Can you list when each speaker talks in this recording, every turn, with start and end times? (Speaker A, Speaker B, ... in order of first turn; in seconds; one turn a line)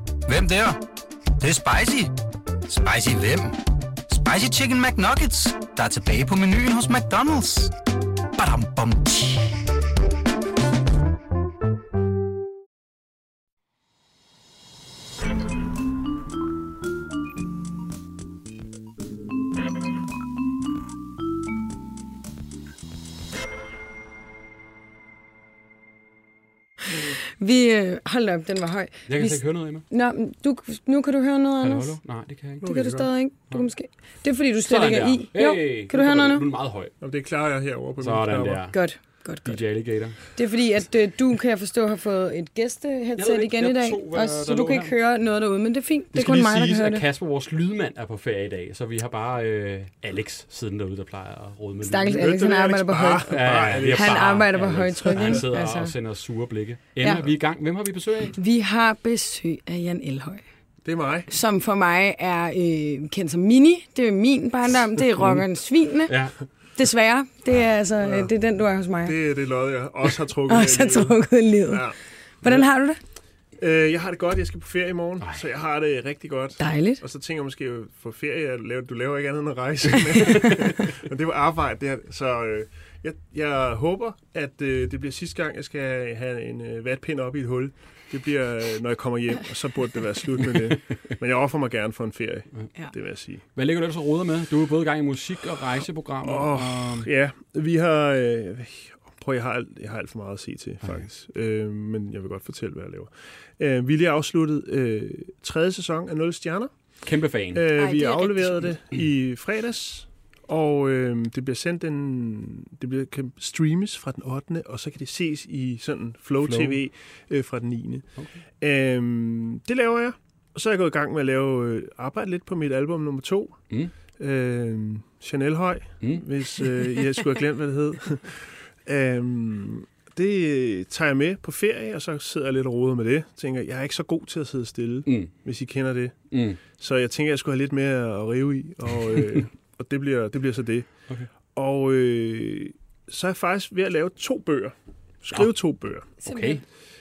Speaker A: 0.3-0.8
Speaker A: 1.4-2.1
Speaker A: 2.7-7.7
Speaker A: 8.4-9.6
Speaker B: 27.4-32.0
Speaker C: 29.1-29.8
Speaker C: 31.6-32.6
Speaker D: 32.6-33.1
Speaker B: 32.6-36.4
Speaker C: 34.6-36.9
Speaker D: 37.0-38.6
Speaker C: 38.0-40.2
Speaker B: 38.7-47.0
Speaker C: 43.1-44.9
Speaker C: 46.1-52.2
Speaker B: 51.8-53.3
Speaker D: 52.1-54.4
Speaker C: 53.2-58.3
Speaker B: 53.9-55.9
Speaker D: 55.1-55.4
Speaker B: 57.0-57.3
Speaker B: 58.3-60.4
Speaker D: 60.8-61.3
Speaker B: 61.3-66.2
Speaker C: 66.1-66.4
Speaker B: 66.7-69.2
Speaker D: 68.0-68.3
Speaker D: 69.0-72.0
Speaker B: 70.5-71.8
Speaker B: 72.4-73.0
Speaker D: 73.6-93.4
Speaker B: 76.6-77.0
Speaker C: 93.5-97.1
Speaker D: 96.2-106.8
Speaker C: 107.0-107.7
Speaker D: 107.5-118.1
Speaker B: 107.8-108.7
Speaker C: 116.4-116.8
Speaker D: 118.6-140.9
Speaker C: 135.1-135.3
Speaker C: 136.3-136.6
Speaker D: 141.5-146.2
Speaker C: 146.2-146.6
Speaker B: 146.2-146.6